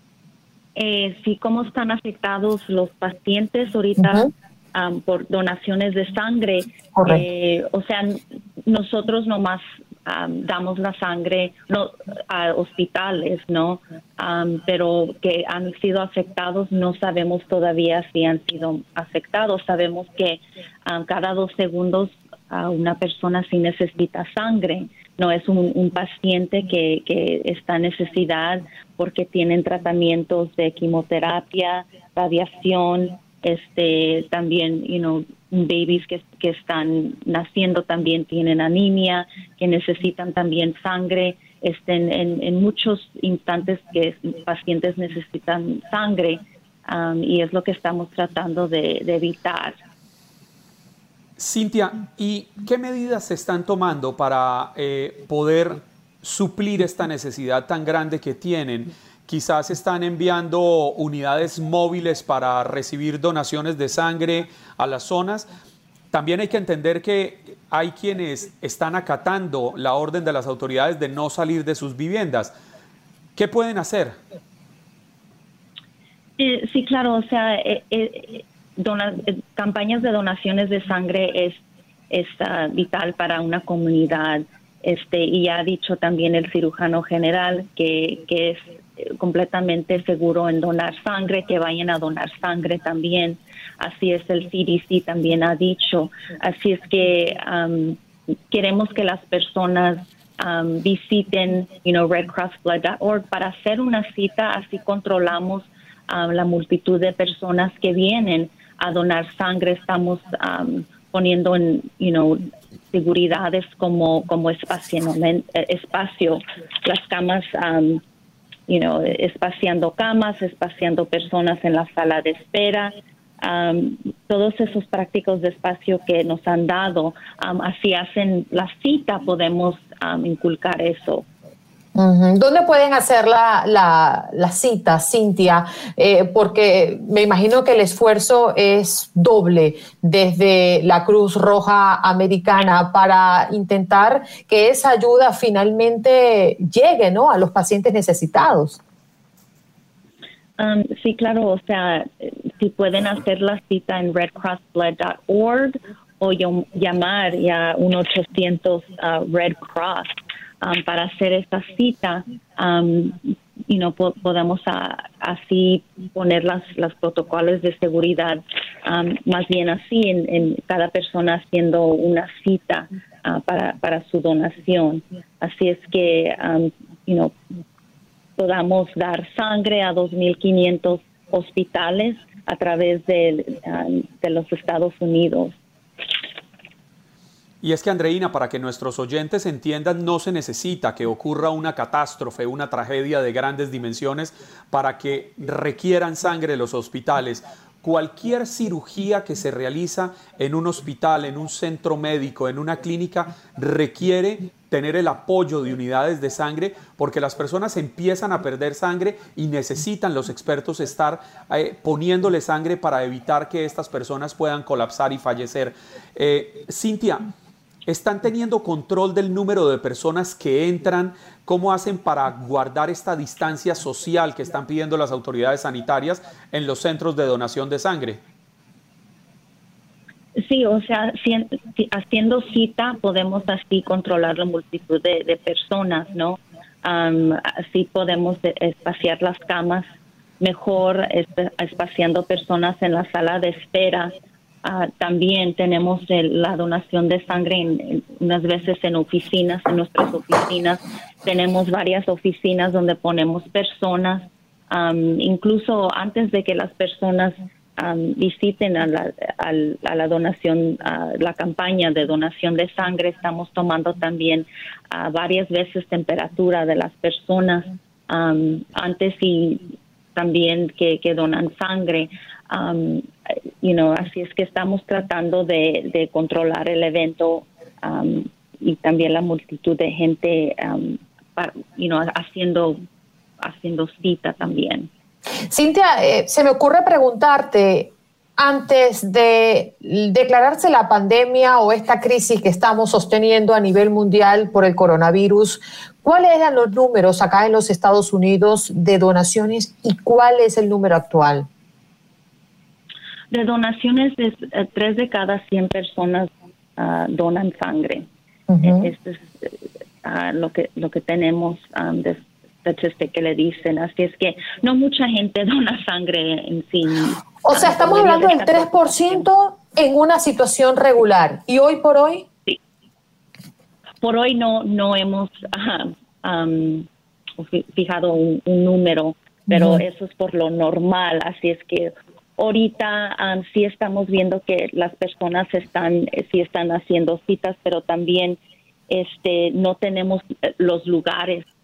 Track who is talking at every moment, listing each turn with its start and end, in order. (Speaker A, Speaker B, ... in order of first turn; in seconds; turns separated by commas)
Speaker A: 0.7-49.8, Speaker B: 4.0-4.3, Speaker B: 6.9-7.2, Speaker C: 51.4-65.5, Speaker C: 66.1-72.5, Speaker C: 73.3-74.2, Speaker A: 76.4-118.0, Speaker A: 118.7-131.2, Speaker B: 131.9-148.8, Speaker A: 150.6-160.1, Speaker A: 160.6-177.3, Speaker A: 178.4-185.5, Speaker C: 187.6-217.3, Speaker C: 217.8-228.2, Speaker A: 230.3-239.8, Speaker A: 240.4-244.1, Speaker A: 244.6-273.1, Speaker A: 273.6-282.8, Speaker A: 283.4-284.9, Speaker B: 285.5-301.5, Speaker A: 303.3-308.1, Speaker B: 308.5-308.9, Speaker A: 308.6-319.2, Speaker B: 317.4-322.3, Speaker A: 324.0-341.4, Speaker B: 329.5-329.8